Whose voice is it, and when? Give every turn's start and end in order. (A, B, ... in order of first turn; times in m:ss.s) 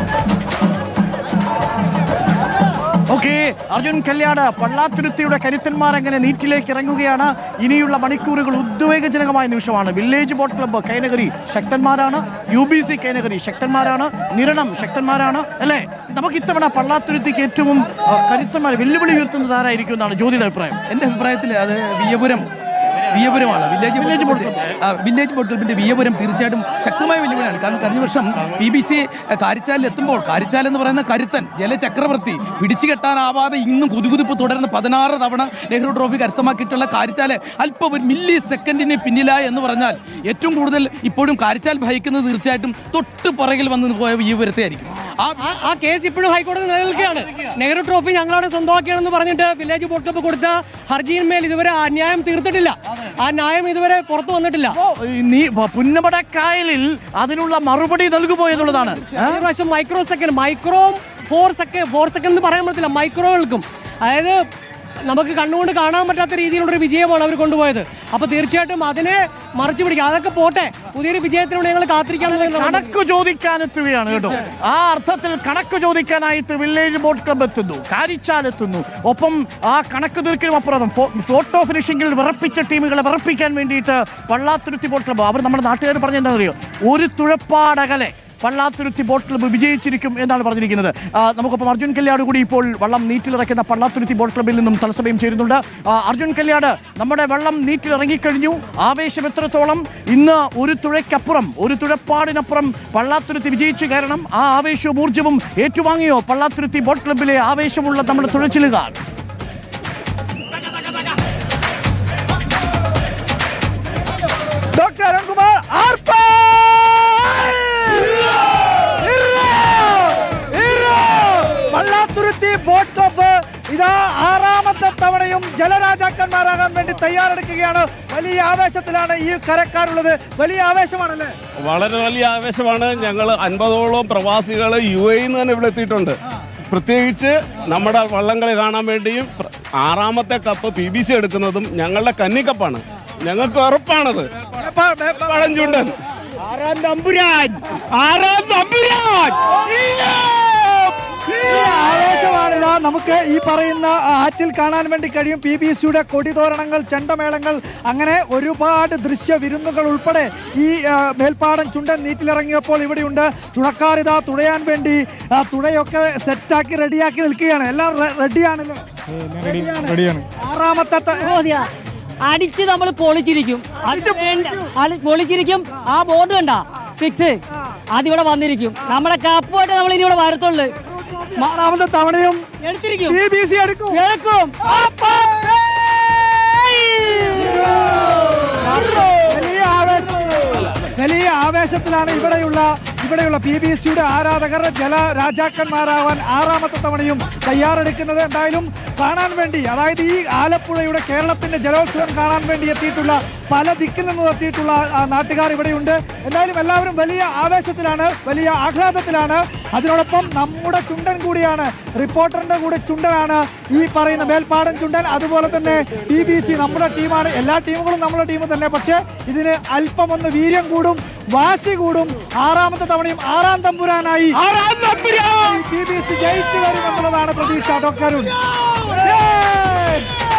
0:03.1-0:20.8 A
0:20.9-0:22.5 B
0:23.1-0:45.4 B
0:24.0-0:24.6 A
0:45.4-0:54.7 C
0:54.7-0:59.4 A
0:59.2-1:04.4 C
1:05.0-1:12.9 C
1:12.2-1:49.0 A
1:54.7-2:11.3 D
2:11.6-2:16.2 E
2:16.7-2:24.2 E
2:24.6-2:25.5 D
2:25.3-2:25.9 E
2:26.6-2:30.8 E
2:31.4-2:51.4 D
2:51.2-2:51.7 F
2:52.2-2:57.4 F
2:53.8-2:54.7 D
2:57.9-3:00.7 F
3:01.2-3:02.5 D
3:02.6-3:03.2 F
3:03.1-3:04.0 D
3:03.9-3:04.6 F
3:04.7-3:05.8 D
3:06.4-3:07.7 D
3:08.5-3:44.5 D
3:45.2-3:48.3 D
3:48.9-3:50.1 D